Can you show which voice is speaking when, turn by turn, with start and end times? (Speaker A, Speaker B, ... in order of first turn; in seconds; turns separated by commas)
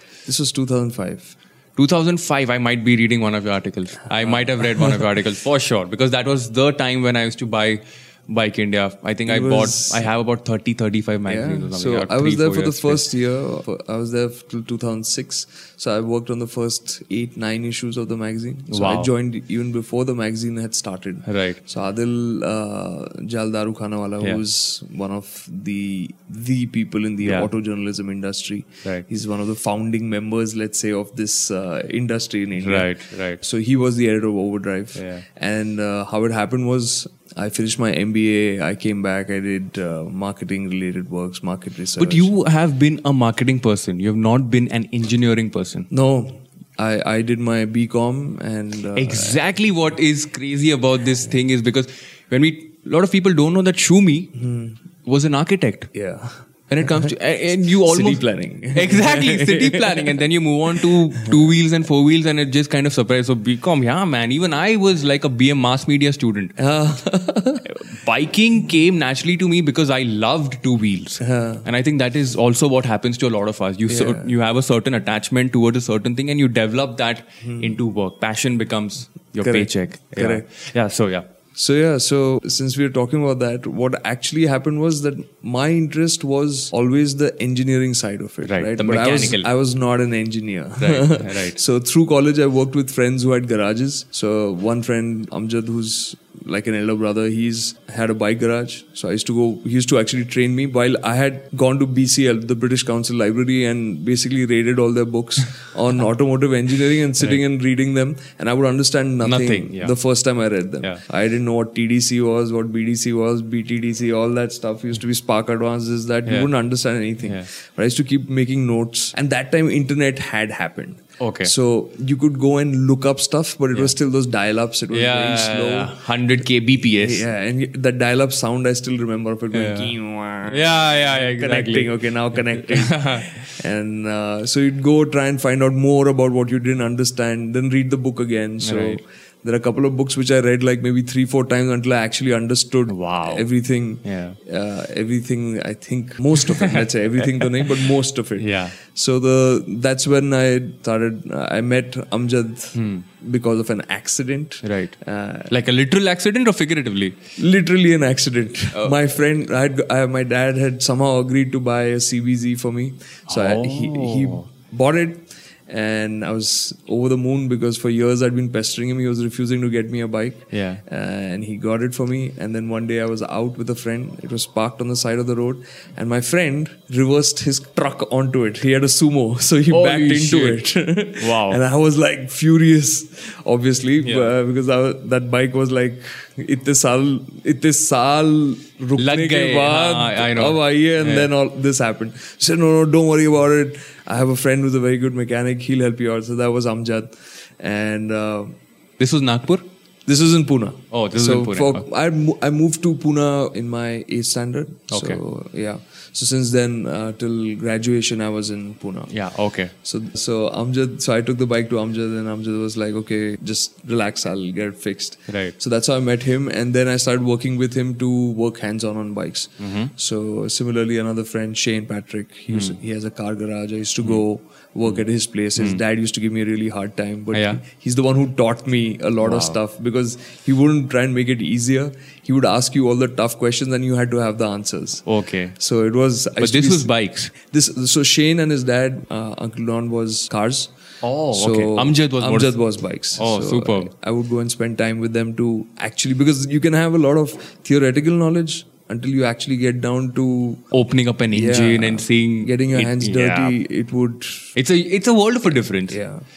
Speaker A: 0.2-1.3, Speaker B: 1.8-13.1, Speaker A: 4.2-5.0, Speaker A: 9.3-10.0, Speaker A: 11.2-42.3, Speaker B: 18.7-19.1, Speaker B: 21.2-21.6, Speaker B: 27.2-27.5, Speaker B: 32.6-33.4, Speaker B: 35.0-35.2, Speaker B: 42.0-45.9, Speaker A: 45.9-49.4, Speaker B: 48.9-54.3, Speaker A: 54.4-54.7, Speaker B: 55.0-55.9, Speaker A: 55.9-57.1, Speaker B: 56.7-66.5, Speaker A: 57.8-60.2, Speaker A: 61.1-61.4, Speaker A: 66.6-67.6, Speaker B: 67.6-81.2, Speaker A: 71.2-71.6, Speaker A: 73.9-74.3, Speaker A: 77.4-77.7, Speaker A: 79.4-80.5, Speaker A: 81.5-126.1, Speaker B: 88.4-89.5, Speaker B: 90.8-91.6, Speaker B: 109.2-109.9, Speaker B: 117.2-117.5, Speaker B: 121.2-121.5, Speaker B: 124.9-127.2, Speaker A: 127.0-155.5, Speaker B: 129.5-129.9, Speaker B: 130.4-133.4, Speaker B: 138.6-139.0, Speaker B: 142.9-143.5, Speaker B: 144.0-144.4, Speaker B: 146.3-147.8, Speaker B: 148.4-148.8, Speaker B: 152.7-153.0, Speaker B: 154.6-154.9, Speaker B: 155.5-157.2, Speaker A: 157.4-198.5, Speaker B: 158.7-159.0, Speaker B: 163.3-164.4, Speaker B: 170.5-170.8, Speaker B: 179.7-180.6, Speaker B: 181.2-181.6, Speaker B: 184.0-184.3, Speaker B: 188.9-191.3, Speaker B: 199.0-199.7, Speaker A: 200.1-209.1, Speaker B: 200.9-201.8, Speaker B: 204.9-205.2, Speaker B: 209.1-209.7, Speaker A: 209.8-240.7, Speaker B: 215.3-215.5, Speaker B: 219.6-219.9, Speaker B: 222.5-222.8, Speaker B: 227.3-227.6, Speaker B: 229.2-229.6, Speaker B: 235.1-235.6, Speaker B: 236.4-237.3, Speaker B: 241.0-242.6, Speaker A: 241.3-250.7, Speaker B: 243.1-243.9, Speaker B: 250.7-253.6, Speaker A: 251.3-254.5, Speaker B: 254.5-256.0, Speaker A: 255.9-256.2